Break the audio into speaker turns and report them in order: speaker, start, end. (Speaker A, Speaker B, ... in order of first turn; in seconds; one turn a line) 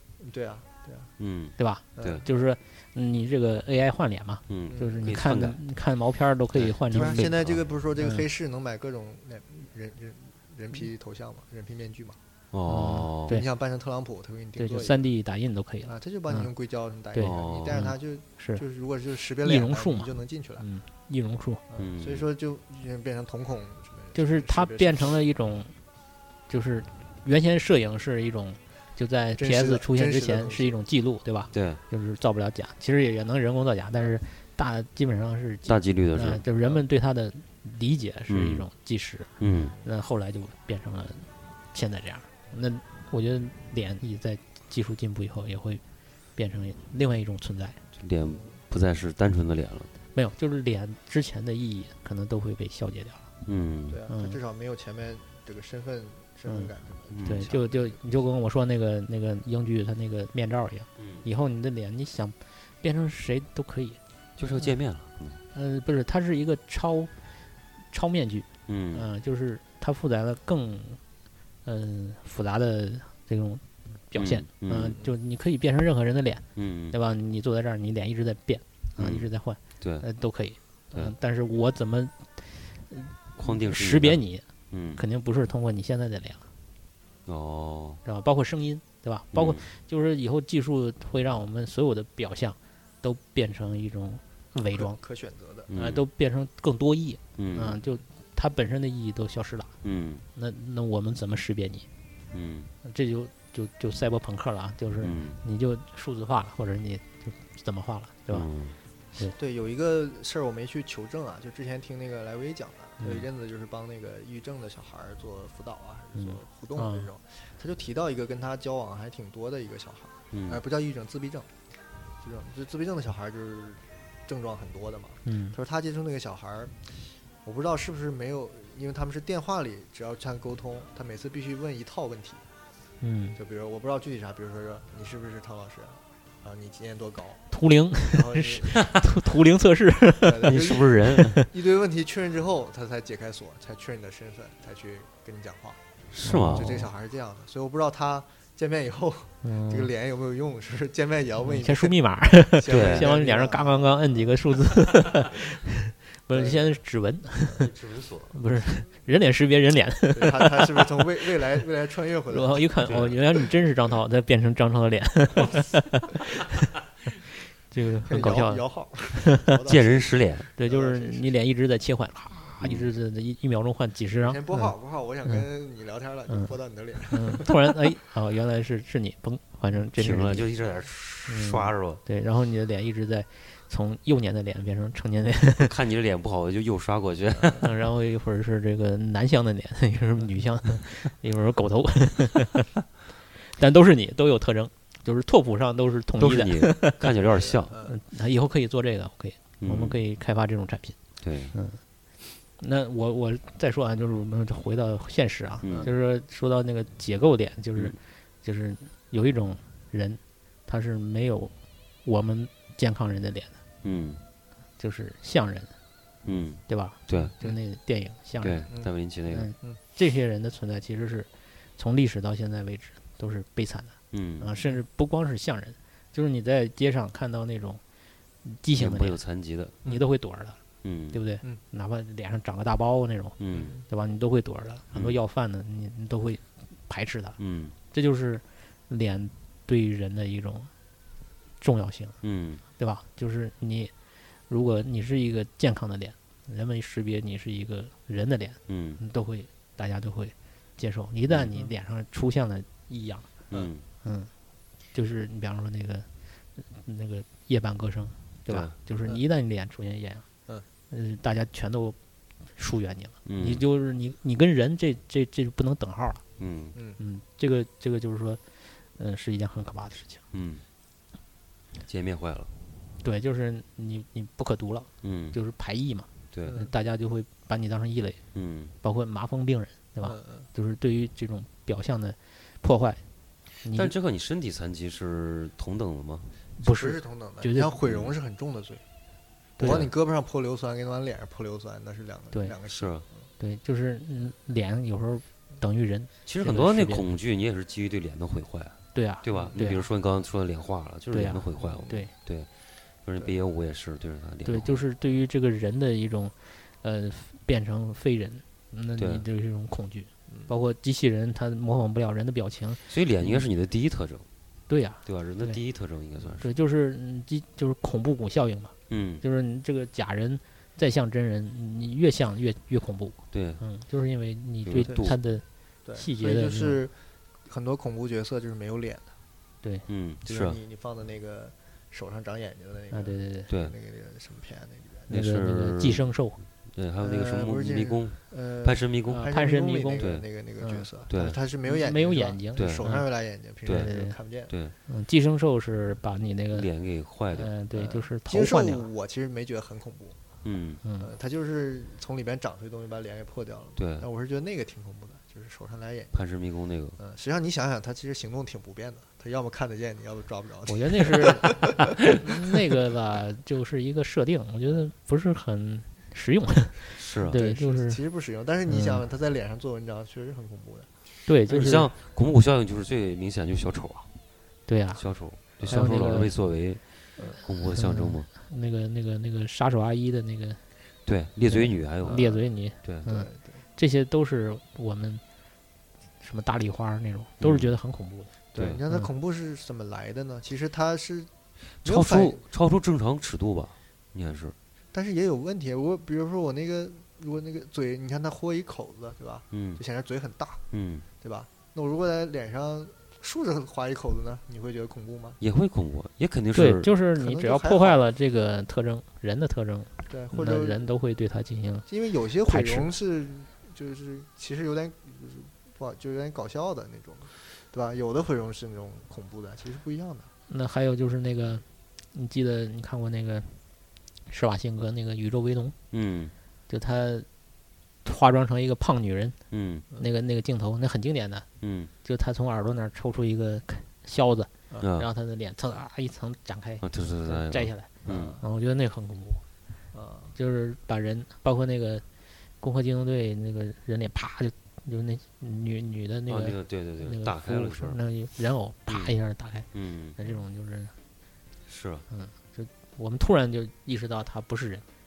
Speaker A: 0.2-1.1
Speaker B: 1.2-2.2
Speaker C: 1.6-8.2
Speaker A: 2.0-2.2
Speaker B: 4.5-5.6
Speaker A: 4.7-5.0
Speaker B: 6.5-7.6
Speaker A: 6.9-12.2
Speaker B: 12.5-13.4
Speaker C: 12.7-13.5
Speaker A: 13.3-15.1
Speaker C: 14.6-16.5
Speaker A: 15.8-20.6
Speaker C: 17.1-18.6
Speaker B: 17.2-17.8
Speaker C: 19.4-21.6
Speaker A: 21.7-25.2
Speaker B: 21.8-22.3
Speaker C: 24.1-25.7
Speaker C: 26.5-45.8
Speaker A: 29.4-30.8
Speaker B: 31.5-31.8
Speaker B: 35.6-36.4
Speaker B: 38.3-38.6
Speaker B: 39.4-39.7
Speaker A: 39.6-39.9
Speaker C: 46.4-47.8
Speaker B: 48.0-49.9
Speaker C: 50.1-53.3
Speaker B: 53.4-54.0
Speaker A: 53.9-58.0
Speaker C: 54.1-54.4
Speaker C: 56.5-56.7
Speaker B: 57.1-57.5
Speaker C: 57.2-64.0
Speaker B: 61.0-61.2
Speaker B: 64.4-65.4
Speaker C: 65.5-67.1
Speaker C: 67.9-71.0
Speaker B: 68.7-69.1
Speaker C: 71.6-86.5
Speaker B: 74.1-75.0
Speaker B: 76.5-77.0
Speaker B: 79.0-79.3
Speaker B: 79.8-80.0
Speaker B: 83.4-84.2
Speaker B: 84.7-85.0
Speaker B: 87.3-88.0
Speaker C: 88.0-95.0
Speaker B: 89.3-89.6
Speaker A: 94.7-95.7
Speaker B: 95.7-96.0
Speaker C: 95.7-99.7
Speaker B: 97.4-97.8
Speaker B: 99.8-100.2
Speaker C: 100.3-101.9
Speaker B: 102.3-102.7
Speaker C: 102.8-108.5
Speaker B: 105.0-105.4
Speaker B: 108.3-108.8
Speaker A: 109.2-121.5
Speaker C: 116.1-117.1
Speaker B: 120.3-120.6
Speaker A: 122.2-132.4
Speaker C: 125.2-125.5
Speaker C: 133.0-133.4
Speaker A: 133.4-137.4
Speaker C: 137.5-141.5
Speaker A: 138.0-138.9
Speaker A: 140.2-145.8
Speaker B: 140.4-141.4
Speaker B: 146.1-146.8
Speaker C: 146.2-146.9
Speaker A: 146.5-154.4
Speaker C: 149.4-149.9
Speaker C: 151.4-157.7
Speaker B: 152.7-153.1
Speaker A: 156.3-156.8
Speaker B: 157.6-158.3
Speaker C: 158.3-161.0
Speaker A: 160.1-163.1
Speaker C: 162.3-166.4
Speaker B: 162.9-163.2
Speaker C: 167.7-169.6
Speaker A: 168.0-171.3
Speaker B: 169.7-170.5
Speaker C: 170.6-174.7
Speaker B: 172.6-172.9
Speaker A: 174.2-177.5
Speaker C: 177.1-180.5
Speaker B: 180.0-182.0
Speaker C: 181.3-185.7
Speaker B: 185.6-187.7
Speaker A: 187.3-187.6
Speaker C: 187.6-192.7
Speaker C: 193.4-197.0
Speaker B: 196.2-197.7
Speaker A: 197.1-198.0
Speaker C: 197.8-201.0
Speaker B: 199.6-200.0
Speaker B: 201.2-201.5
Speaker C: 201.5-201.8
Speaker C: 202.5-213.6
Speaker B: 205.6-205.9
Speaker B: 213.8-214.2
Speaker C: 214.8-215.7
Speaker B: 216.2-217.3
Speaker C: 216.7-218.7
Speaker B: 218.4-219.5
Speaker C: 219.3-227.8
Speaker B: 224.1-224.5
Speaker C: 228.4-229.2
Speaker B: 228.8-229.8
Speaker C: 229.8-230.6
Speaker B: 230.8-231.2
Speaker C: 231.1-237.4
Speaker B: 233.4-233.7
Speaker A: 233.5-233.8
Speaker B: 237.4-237.8
Speaker C: 237.9-240.7
Speaker C: 241.6-242.2
Speaker B: 242.2-242.6
Speaker C: 242.8-243.9
Speaker C: 244.5-253.3
Speaker B: 248.7-249.0
Speaker B: 253.5-253.8
Speaker C: 254.0-254.3
Speaker C: 254.9-260.2
Speaker B: 258.5-258.7
Speaker C: 260.9-262.0
Speaker C: 262.5-266.2
Speaker B: 263.2-263.6
Speaker B: 266.4-266.8
Speaker A: 266.7-267.0
Speaker C: 267.0-268.4
Speaker C: 268.9-270.2
Speaker B: 270.3-270.6
Speaker B: 271.9-272.5
Speaker C: 273.0-278.2
Speaker B: 275.0-275.4
Speaker B: 276.3-276.6
Speaker A: 276.5-276.7
Speaker B: 278.3-278.7
Speaker C: 278.8-283.0
Speaker A: 280.0-280.5
Speaker C: 283.6-283.9
Speaker B: 283.7-286.3
Speaker C: 286.6-287.8
Speaker A: 286.6-288.8
Speaker B: 287.9-288.1
Speaker C: 289.6-289.8
Speaker A: 289.6-293.2
Speaker B: 289.6-289.9
Speaker C: 292.3-292.6
Speaker B: 292.7-293.0
Speaker C: 293.4-297.1
Speaker B: 296.2-304.8
Speaker C: 298.9-299.8
Speaker C: 301.1-302.1
Speaker A: 301.6-302.0
Speaker C: 304.4-313.5
Speaker B: 309.0-309.2
Speaker B: 312.9-314.2
Speaker C: 314.7-315.6
Speaker B: 315.0-316.5
Speaker C: 316.4-326.8
Speaker B: 318.9-319.2
Speaker B: 323.3-323.6
Speaker B: 324.6-325.2
Speaker A: 324.8-325.2
Speaker A: 325.8-329.1
Speaker B: 329.9-330.6
Speaker A: 330.2-335.1
Speaker C: 332.9-333.5
Speaker B: 335.1-336.1
Speaker C: 335.1-336.4
Speaker B: 336.7-339.3
Speaker A: 337.0-344.5
Speaker C: 339.1-340.1
Speaker B: 340.0-340.2
Speaker C: 340.6-340.9
Speaker B: 341.1-341.4
Speaker C: 341.6-343.1
Speaker B: 342.6-342.9
Speaker B: 343.6-343.9
Speaker C: 343.6-344.2
Speaker B: 344.5-344.7
Speaker C: 344.9-346.7
Speaker B: 346.5-347.5
Speaker C: 347.3-348.9
Speaker A: 347.7-350.2
Speaker B: 350.4-350.8
Speaker C: 350.8-351.1
Speaker A: 351.0-356.2
Speaker B: 353.8-354.1
Speaker B: 356.1-357.0
Speaker A: 357.0-361.6
Speaker C: 360.7-368.0
Speaker B: 367.0-367.4
Speaker A: 367.3-370.9
Speaker C: 368.7-369.0
Speaker C: 371.2-371.9
Speaker B: 371.5-374.1
Speaker C: 374.7-376.3
Speaker B: 374.9-378.3
Speaker C: 377.7-380.6
Speaker B: 381.1-383.1
Speaker C: 381.5-385.2
Speaker A: 383.0-383.6
Speaker C: 386.2-388.3
Speaker B: 387.4-387.7
Speaker A: 388.5-391.3
Speaker B: 388.5-388.8
Speaker B: 391.8-394.5
Speaker A: 391.8-392.4
Speaker A: 394.9-400.6
Speaker B: 399.5-399.8
Speaker B: 400.7-401.1
Speaker A: 401.2-405.4
Speaker B: 405.4-406.9
Speaker C: 406.5-411.9
Speaker A: 407.1-408.0
Speaker A: 410.1-410.8
Speaker A: 411.9-420.3
Speaker C: 412.4-412.9
Speaker C: 420.5-423.6
Speaker C: 424.3-425.8
Speaker B: 425.9-426.3
Speaker C: 426.7-427.3
Speaker C: 428.0-429.4
Speaker B: 429.5-429.9
Speaker C: 429.9-431.4
Speaker B: 431.6-431.9
Speaker C: 432.0-439.4
Speaker B: 434.8-435.1
Speaker B: 436.8-438.4
Speaker A: 438.1-438.4
Speaker A: 439.9-440.4
Speaker C: 440.4-442.0
Speaker C: 442.6-450.9
Speaker B: 446.3-448.0
Speaker B: 448.9-449.2
Speaker B: 449.7-450.2
Speaker B: 451.6-452.0
Speaker C: 452.1-454.8